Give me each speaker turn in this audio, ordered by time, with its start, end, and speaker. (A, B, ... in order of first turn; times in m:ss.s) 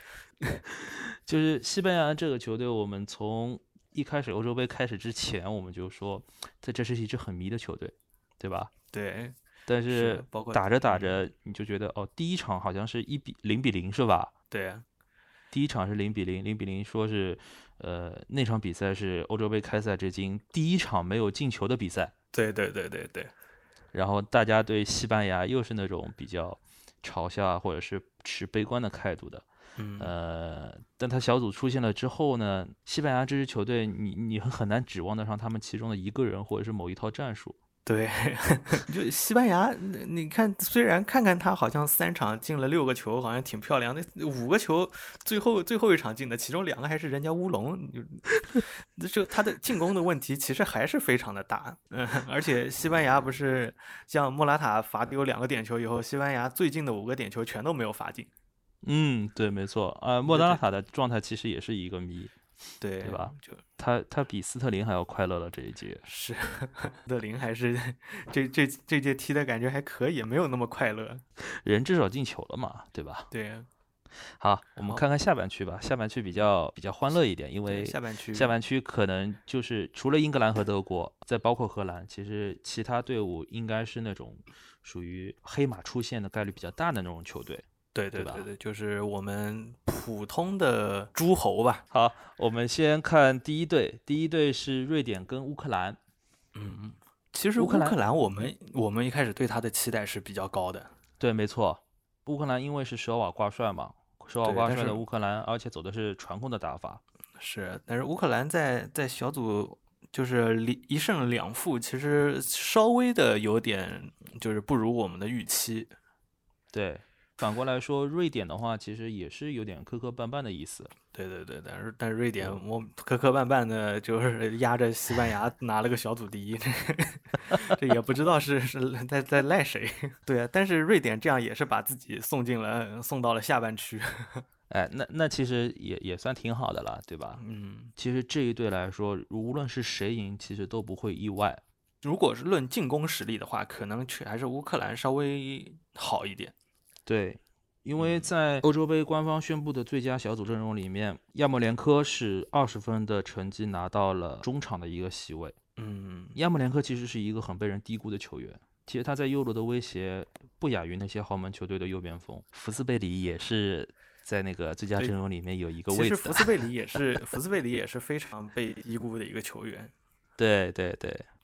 0:00.8-0:08.7 A
0:08.9-0:09.3 B
0:09.7-0:14.3 A
0:09.9-0:11.2 B
0:14.5-0:14.8 B
0:15.5-0:22.1 A
0:22.3-0:23.3 B
0:23.9-0:29.4 A
0:29.8-0:30.1 B
0:30.0-0:37.6 A
0:37.8-0:58.3 B
0:58.8-1:02.3 A
1:00.2-1:00.6 B
1:02.8-1:03.6 B
1:03.0-1:06.0 A
1:06.0-1:11.2 B
1:11.4-1:13.3 A
1:13.3-1:13.7 B
1:14.2-1:28.4 A
1:17.7-1:18.5 B
1:27.9-1:31.8 B
1:31.9-1:36.0 A
1:36.5-1:40.9 B
1:37.6-1:38.0 A
1:41.2-1:47.0 A
1:44.4-1:45.0 B
1:47.4-1:55.9 B
1:56.7-2:00.9 A
2:01.1-2:14.4 B
2:14.7-2:17.4 A
2:17.4-2:17.9 B
2:18.0-2:21.6 A
2:22.0-2:26.5 B
2:27.0-2:35.6 A
2:28.0-2:28.3 B
2:35.8-2:36.4 B
2:36.4-2:46.5 A
2:45.9-2:49.9 B
2:50.4-2:51.3 A